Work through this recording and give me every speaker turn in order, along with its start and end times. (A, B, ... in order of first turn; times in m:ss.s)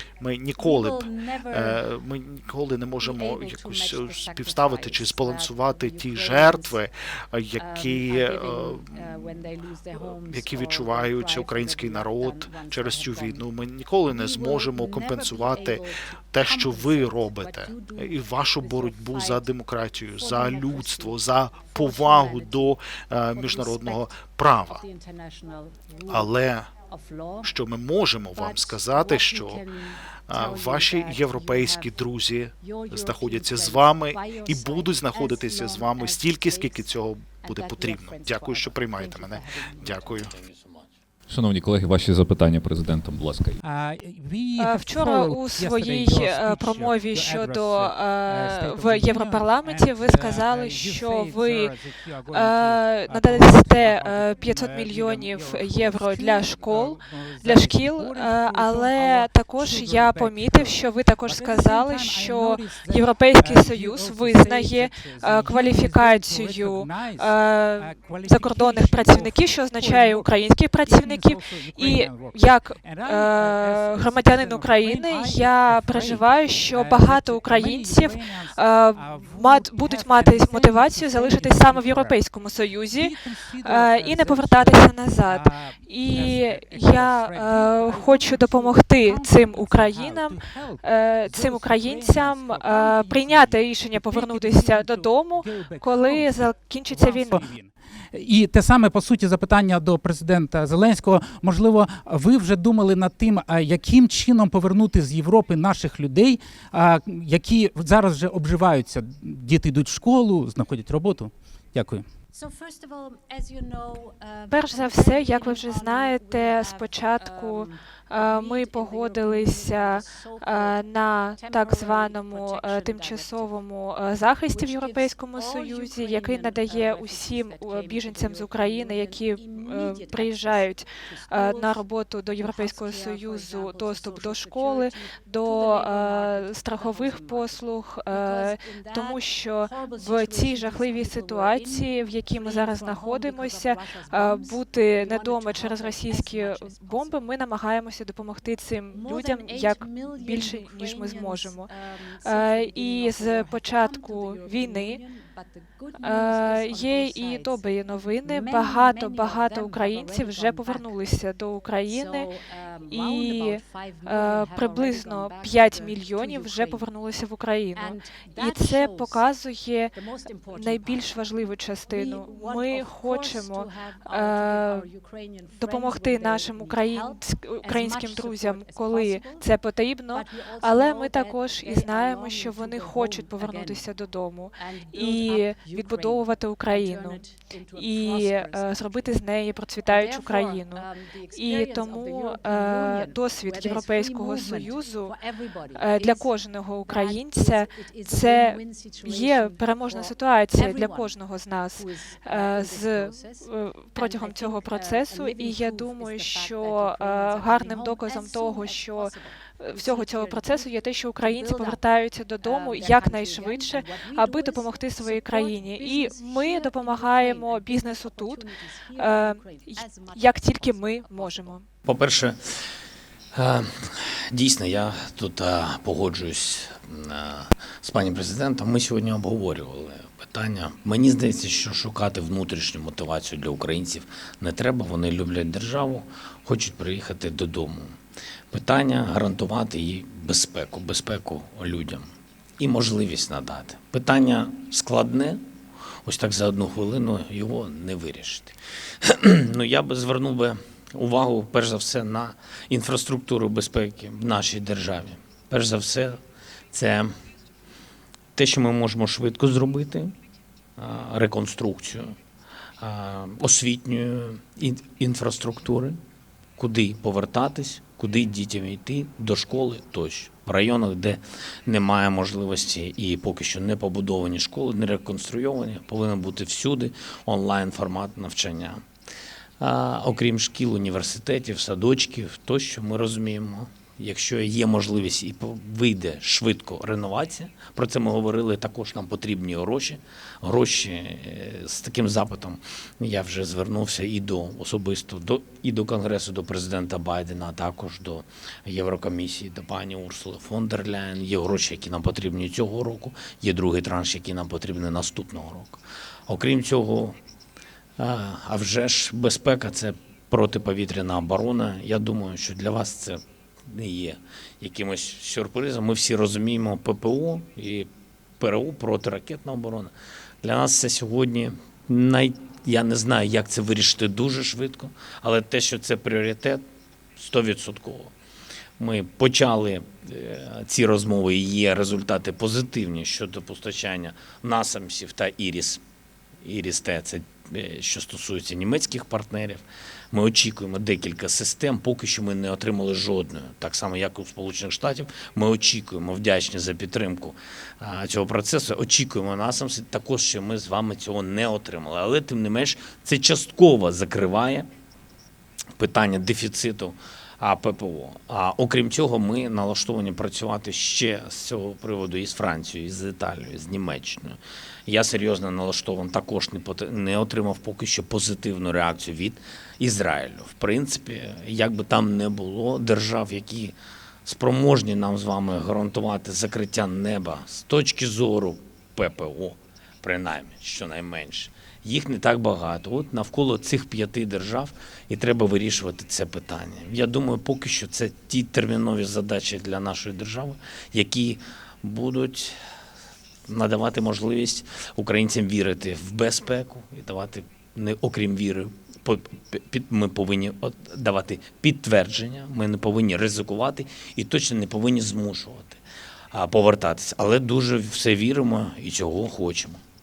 0:00.2-0:24.8 A
0:00.6-0:01.8 B
0:03.0-0:06.8 B
0:07.6-0:13.5 B
0:14.1-0:19.4 B
0:20.2-0:21.2 B
0:21.7-0:22.8 B
0:23.3-0:24.1 B
0:24.6-0:26.3 B
0:26.1-0:26.7 A
0:26.8-0:27.5 B
0:27.4-0:29.6 A
0:28.3-0:31.9 B
0:30.3-0:40.3 A
0:32.6-0:36.9 B
0:37.4-0:40.3 B
0:40.1-0:40.9 C
0:41.3-0:43.6 D
0:43.6-1:22.2 E
0:44.6-0:51.8 F
0:52.3-1:37.4 F
1:22.9-1:52.1 E
1:52.3-2:03.5 B
1:54.5-2:31.7 F
2:04.5-2:27.2 B
2:28.9-2:40.9 B
2:32.2-2:35.0 F
2:36.0-2:42.3 F
2:41.9-2:46.8 B
2:42.9-2:49.9 F
2:47.8-2:49.2 B
2:49.9-2:51.2 B
2:50.5-2:54.9 F
2:51.9-2:59.6 B
2:55.6-3:07.2 F
3:00.1-3:03.9 B
3:04.6-3:09.3 B
3:07.7-3:15.1 F
3:09.8-3:21.2 B
3:15.7-3:38.4 F
3:21.7-3:31.8 B
3:32.4-3:41.6 B
3:39.0-3:41.6 F
3:41.8-3:42.7 C
3:43.3-3:58.0 C
3:58.5-4:05.4 C
4:06.0-4:16.2 C
4:16.7-4:17.1 C
4:18.3-4:20.1 C
4:20.8-4:22.1 C
4:22.8-4:26.0 C
4:26.6-4:38.8 C
4:39.6-5:07.2 C
5:08.0-5:17.9 C
5:18.4-5:26.6 C
5:27.2-5:28.1 C
5:28.8-5:35.8 C
5:36.4-5:54.7 C
5:55.8-6:32.6 C
6:33.5-6:45.8 C
6:46.3-6:49.8 C